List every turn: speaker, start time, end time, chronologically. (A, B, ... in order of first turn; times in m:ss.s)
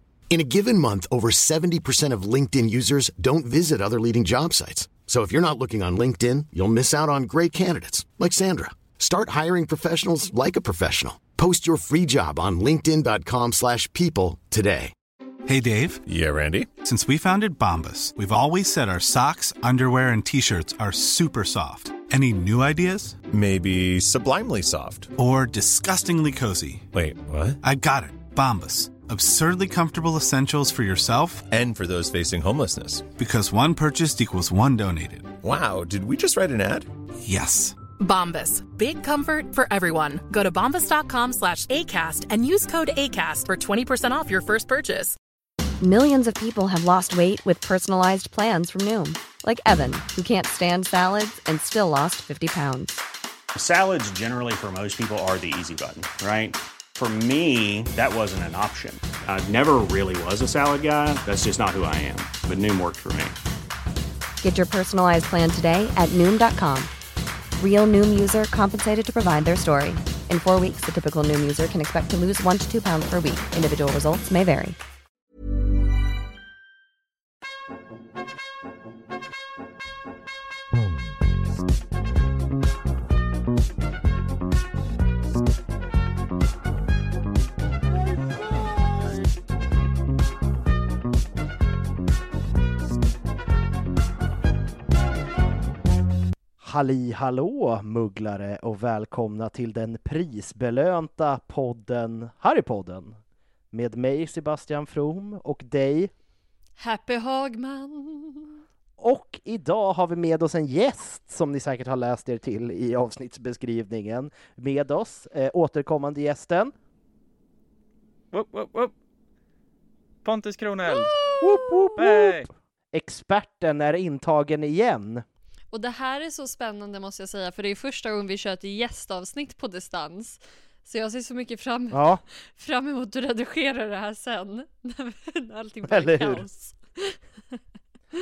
0:00.3-0:14.9 A
0:15.4-0:16.0 B
0:16.1-0:16.7 C
0:16.8-0:23.2 B
0:23.3-0:25.1 C
0:25.1-0:26.9 B
0:26.9-0:27.6 C
0:27.6-0:31.5 B
0:31.5-0:33.1 C
0:33.1-0:35.4 B
0:35.4-0:36.9 C
0:37.2-0:37.8 B
0:38.0-0:45.2 D
0:45.8-0:53.0 E
0:53.5-1:03.3 F
1:04.4-1:06.9 E
1:07.6-1:14.8 E
1:36.6-1:43.2 G
1:43.7-1:46.1 G
1:46.8-1:48.6 H
1:49.0-1:56.7 G
1:58.3-1:58.9 I
2:00.2-2:01.2 I
2:01.4-2:05.2 G
2:02.0-2:02.5 I
2:05.7-2:17.6 H
2:11.9-2:12.2 G
2:15.9-2:16.4 G